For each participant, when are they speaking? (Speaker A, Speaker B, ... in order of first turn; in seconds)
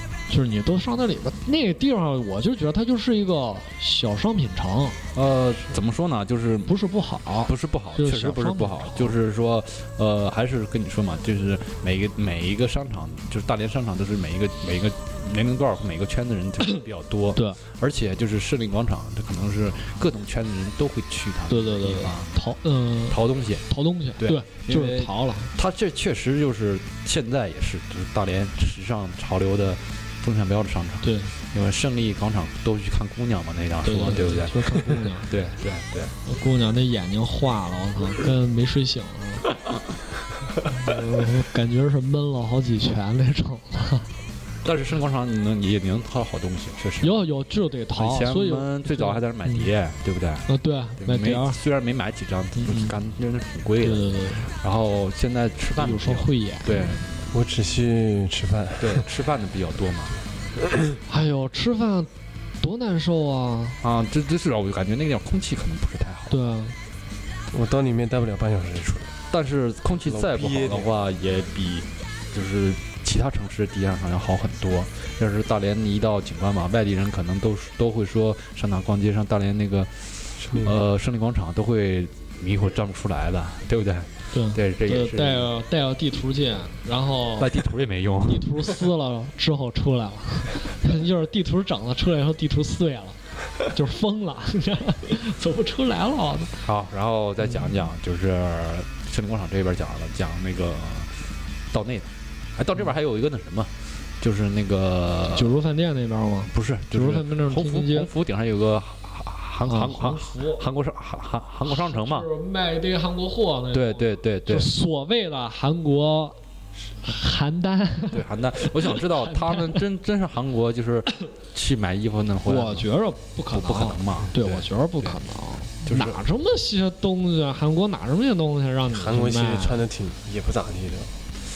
Speaker A: 0.3-5.0, 6.7-9.2, 21.5-25.5, 31.0-31.3, 33.8-35.3, 36.2-39.5, 40.7-44.1, 47.0-49.7, 50.5-51.6, 52.6-53.0, 53.8-54.5, 55.8-57.0, 61.1-62.1, 62.6-63.8, 66.3-66.8, 84.3-87.5, 88.3-96.6, 105.3-108.1, 109.6-110.6, 111.6-116.4, 117.0-119.8, 122.5-129.8
Speaker B: 5.2-6.8, 7.5-22.3, 23.1-23.7, 24.2-36.1, 44.6-47.2, 47.9-50.5, 51.0-57.1, 58.8-60.2, 63.8-66.4, 69.3-85.5, 87.4-88.7, 96.6-101.2, 101.7-105.5, 106.5-112.3, 113.7-114.7, 118.1-122.9, 123.5-125.2, 125.8-126.2
Speaker C: 57.3-59.1, 67.5-69.1, 70.0-70.9, 80.4-80.8, 128.9-131.1